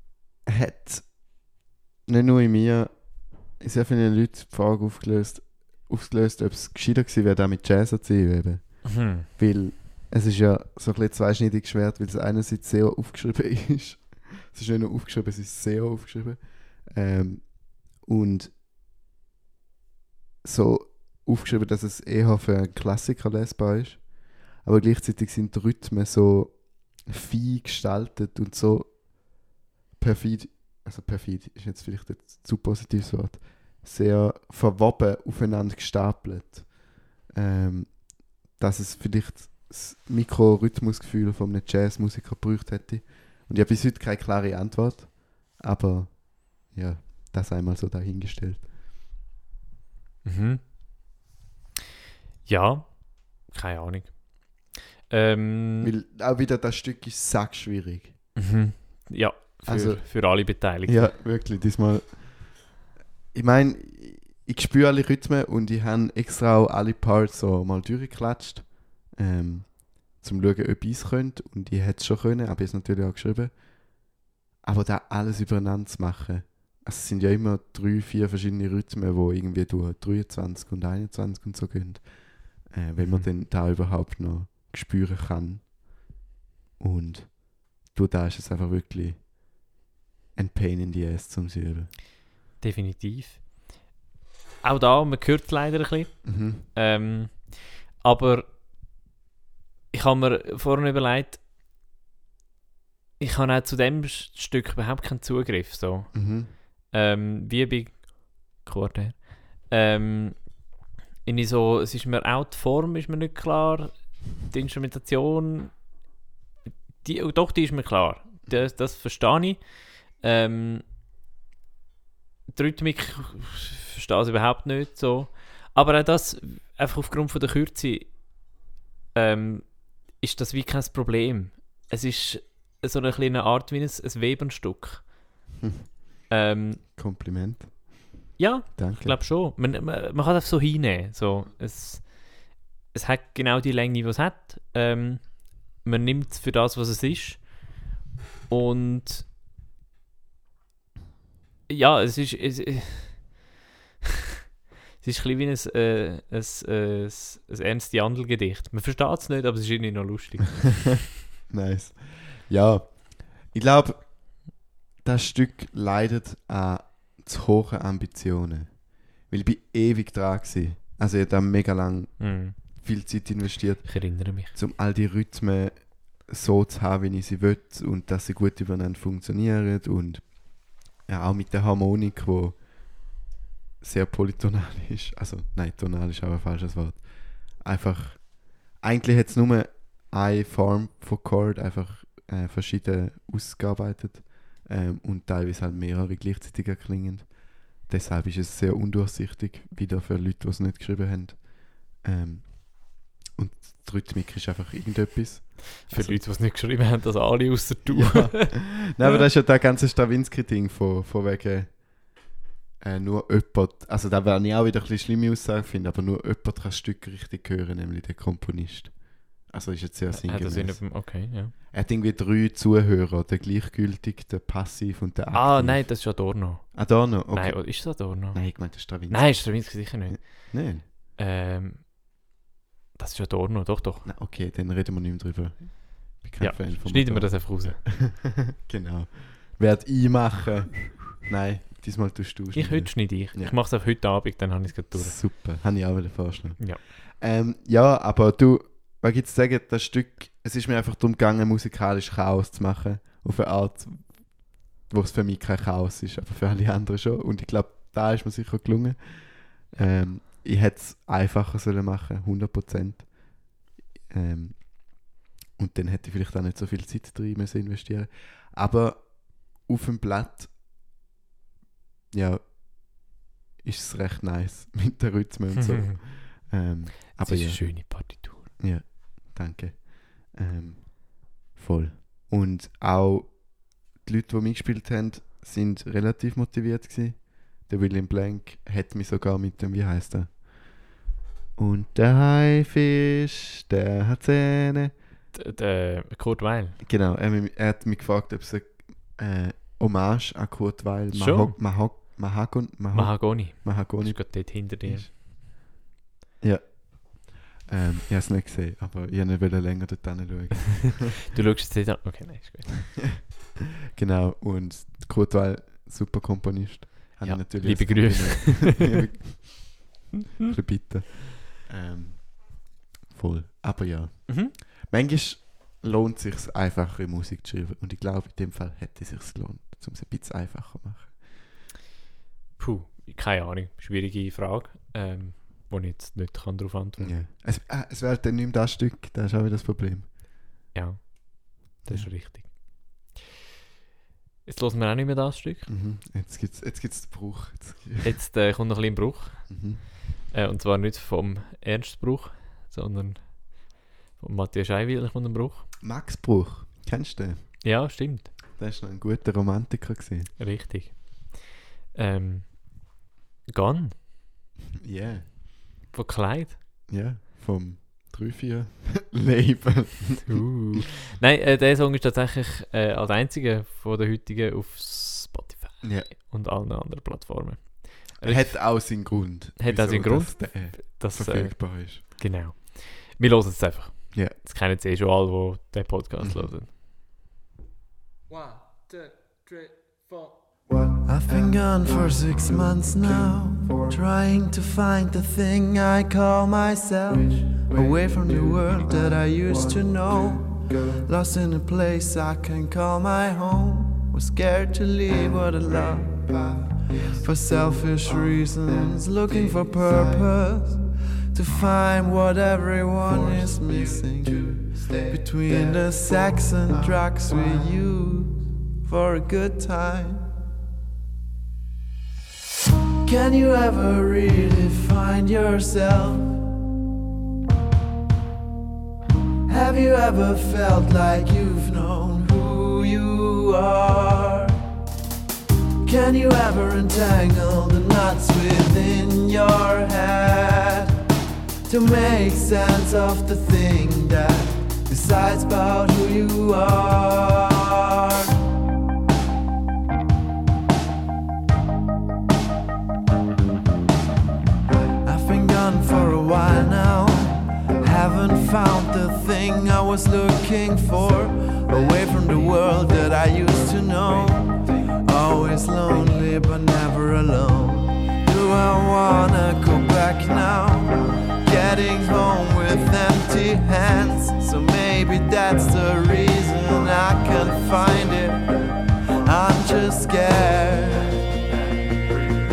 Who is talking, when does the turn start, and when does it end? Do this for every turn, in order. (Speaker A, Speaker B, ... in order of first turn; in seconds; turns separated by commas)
Speaker A: 0.5-1.5, Speaker A: 2.1-18.6, Speaker B: 8.8-9.3, Speaker A: 20.4-48.7, Speaker B: 50.2-51.1, Speaker B: 52.5-55.9, Speaker A: 55.8-58.2, Speaker B: 58.4-61.1, Speaker A: 59.7-62.7, Speaker A: 63.3-74.0, Speaker A: 74.6-85.7, Speaker B: 83.0-83.3, Speaker A: 86.8-89.3, Speaker A: 90.3-91.9, Speaker B: 92.6-93.7, Speaker B: 94.6-98.5, Speaker A: 96.2-96.6, Speaker B: 99.9-101.4, Speaker B: 103.2-115.9, Speaker A: 106.1-106.5, Speaker B: 117.0-120.8, Speaker B: 122.5-128.5, Speaker B: 129.1-135.2, Speaker B: 136.3-136.8, Speaker A: 136.9-138.1, Speaker B: 138.4-147.8, Speaker A: 138.8-139.2, Speaker B: 148.5-149.3, Speaker B: 151.7-153.5, Speaker B: 155.0-161.1, Speaker A: 161.5-182.7, Speaker B: 172.2-172.6, Speaker B: 173.9-174.5, Speaker A: 183.8-206.2, Speaker B: 205.9-208.6, Speaker A: 207.9-212.2, Speaker A: 212.8-230.8, Speaker B: 220.1-221.5, Speaker B: 225.3-231.9, Speaker B: 232.9-234.1, Speaker A: 234.1-243.6, Speaker B: 236.4-237.8, Speaker B: 242.5-245.2, Speaker A: 244.9-270.5, Speaker A: 272.1-290.7, Speaker B: 275.6-276.0, Speaker B: 277.2-278.6, Speaker A: 291.6-294.9, Speaker B: 295.3-296.8, Speaker A: 296.8-305.1, Speaker B: 301.1-301.6, Speaker B: 302.9-305.2, Speaker A: 306.4-311.2, Speaker B: 311.3-313.0, Speaker A: 313.1-313.4, Speaker A: 313.9-319.9, Speaker B: 317.2-319.0, Speaker A: 320.5-331.2, Speaker B: 324.3-324.5, Speaker B: 332.6-337.2, Speaker A: 337.0-340.1, Speaker B: 340.7-343.2, Speaker A: 341.8-342.1, Speaker B: 344.4-345.7, Speaker A: 345.7-348.1, Speaker B: 348.0-355.7, Speaker A: 349.5-349.8, Speaker A: 355.8-357.6, Speaker B: 357.6-358.3, Speaker A: 358.6-360.3, Speaker B: 360.4-364.0, Speaker A: 364.8-365.3, Speaker B: 365.9-366.6, Speaker A: 366.9-370.5, Speaker B: 370.3-386.7, Speaker A: 375.8-376.1, Speaker A: 378.2-382.0, Speaker A: 386.2-386.6, Speaker C: 391.0-420.3, Speaker C: 423.0-426.4, Speaker C: 429.5-434.6, Speaker C: 435.8-441.0, Speaker C: 441.7-448.3, Speaker C: 455.0-478.5, Speaker C: 479.2-481.2